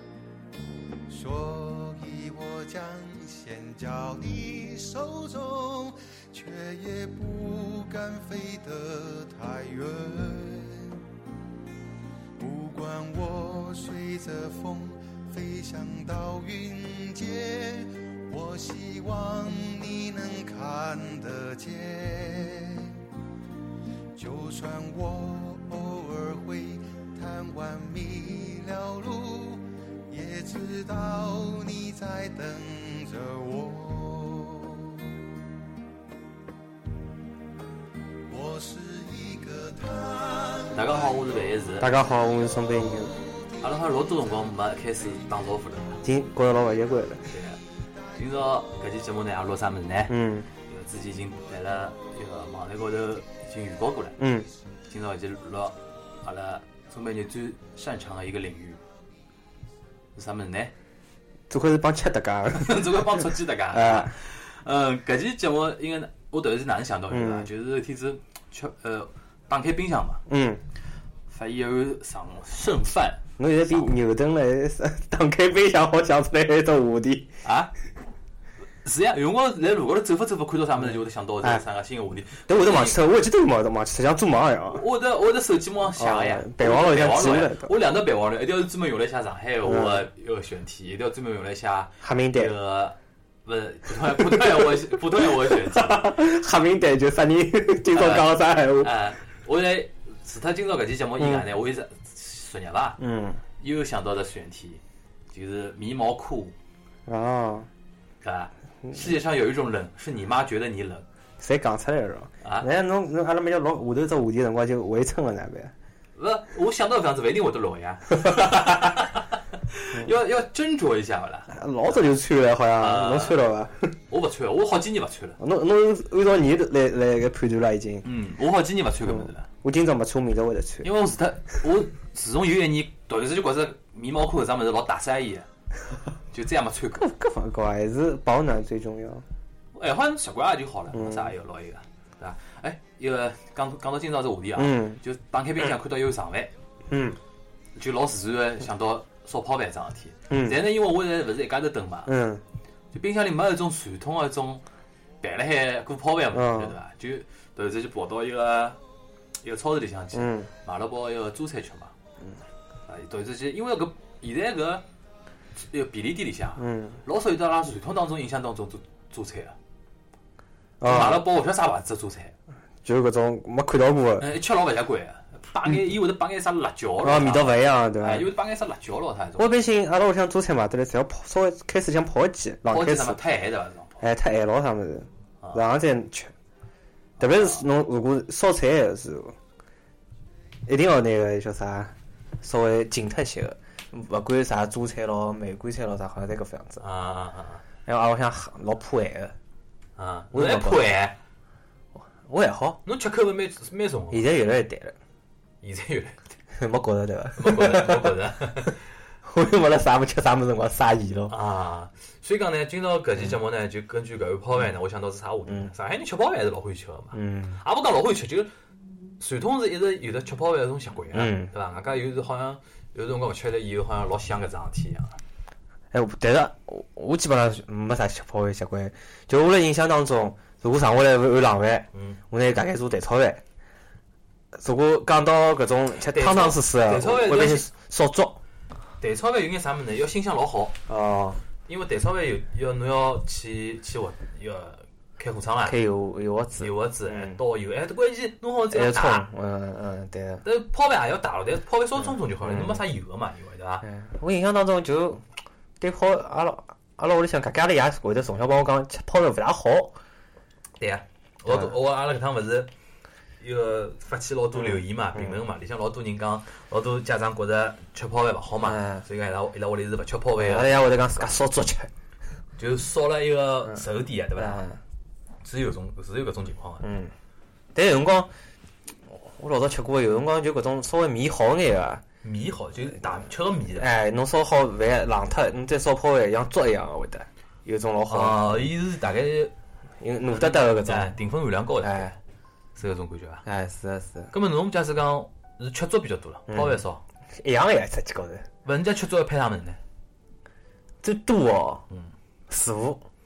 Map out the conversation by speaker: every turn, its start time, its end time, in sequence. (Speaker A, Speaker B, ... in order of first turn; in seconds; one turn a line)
Speaker A: 1.1-11.0
Speaker A: 12.4-23.0
Speaker A: 24.1-35.2
Speaker A: 38.3-41.2
Speaker B: 40.7-41.9
Speaker C: 41.8-43.1
Speaker B: 43.6-46.0
Speaker C: 46.0-47.3
Speaker B: 47.3-47.6
Speaker B: 48.1-54.2
Speaker C: 50.1-50.5
Speaker C: 54.2-54.5
Speaker B: 54.9-58.8
Speaker B: 60.1-60.7
Speaker C: 61.5-64.1
Speaker B: 62.5-70.2
Speaker C: 67.1-67.5
Speaker C: 70.3-70.6
Speaker B: 71.3-73.9
Speaker C: 73.4-77.3
Speaker B: 77.4-77.7
Speaker B: 78.8-83.0
Speaker C: 82.5-84.8
Speaker B: 84.7-96.1
Speaker C: 85.9-87.7
Speaker C: 89.6-90.0
Speaker C: 92.0-92.5
Speaker C: 94.0-98.9
Speaker B: 97.9-103.0
Speaker C: 101.2-101.5
Speaker C: 103.0-103.4
Speaker B: 103.6-104.8
Speaker B: 105.3-106.5
Speaker C: 107.1-107.7
Speaker B: 108.2-111.0
Speaker C: 111.4-115.7
Speaker B: 112.4-112.7
Speaker B: 116.2-122.0
Speaker C: 118.2-118.8
Speaker C: 121.5-123.9
Speaker B: 122.8-123.4
Speaker B: 124.1-125.4
Speaker C: 125.4-128.1
Speaker B: 128.0-129.4
Speaker C: 129.1-130.9
Speaker B: 130.8-135.4
Speaker B: 136.3-137.1
Speaker C: 136.9-139.2
Speaker B: 139.7-146.5
Speaker C: 140.9-141.3
Speaker C: 144.6-145.0
Speaker C: 146.9-147.2
Speaker B: 147.7-152.1
Speaker C: 150.3-150.6
Speaker C: 152.1-152.4
Speaker B: 152.9-154.6
Speaker B: 155.2-158.8
Speaker C: 156.3-156.8
Speaker B: 159.4-161.9
Speaker C: 160.1-160.5
Speaker B: 162.9-164.8
Speaker B: 165.6-169.5
Speaker C: 166.6-167.0
Speaker C: 170.8-171.2
Speaker B: 170.8-172.3
Speaker C: 172.8-174.3
Speaker B: 174.2-179.5
Speaker C: 177.0-178.3
Speaker C: 179.4-183.2
Speaker B: 182.7-184.0
Speaker C: 184.0-186.3
Speaker C: 187.2-189.3
Speaker B: 187.2-187.6
Speaker C: 190.7-196.8
Speaker B: 196.8-197.6
Speaker C: 197.8-199.3
Speaker B: 200.0-201.2
Speaker C: 200.3-200.9
Speaker C: 202.0-202.8
Speaker B: 202.8-204.3
Speaker C: 204.1-204.9
Speaker B: 205.6-206.2
Speaker C: 206.6-208.1
Speaker B: 207.4-208.8
Speaker C: 209.2-211.3
Speaker B: 211.3-218.5
Speaker C: 217.1-217.6
Speaker B: 219.2-225.2
Speaker C: 221.1-221.5
Speaker C: 225.9-233.4
Speaker B: 231.9-232.2
Speaker C: 234.5-238.4
Speaker B: 236.0-237.7
Speaker B: 239.0-240.7
Speaker C: 240.9-241.4
Speaker B: 241.7-245.8
Speaker C: 245.6-247.4
Speaker B: 246.6-249.2
Speaker C: 248.7-250.4
Speaker B: 250.4-253.8
Speaker C: 252.0-252.8
Speaker C: 253.8-255.2
Speaker C: 255.8-259.9
Speaker B: 260.8-262.7
Speaker B: 263.4-270.9
Speaker C: 264.5-265.4
Speaker C: 268.6-269.0
Speaker C: 270.4-271.9
Speaker B: 272.6-274.6
Speaker C: 274.4-274.8
Speaker B: 275.4-276.8
Speaker C: 276.8-277.1
Speaker C: 277.7-278.3
Speaker C: 279.1-282.0
Speaker B: 282.2-283.9
Speaker C: 283.8-288.7
Speaker B: 288.1-289.5
Speaker C: 290.0-291.1
Speaker B: 290.4-292.1
Speaker C: 291.8-292.1
Speaker B: 292.8-293.4
Speaker C: 293.4-294.3
Speaker B: 294.3-297.0
Speaker C: 296.5-296.8
Speaker C: 297.4-298.4
Speaker B: 298.6-299.8
Speaker C: 301.0-301.8
Speaker C: 302.5-303.0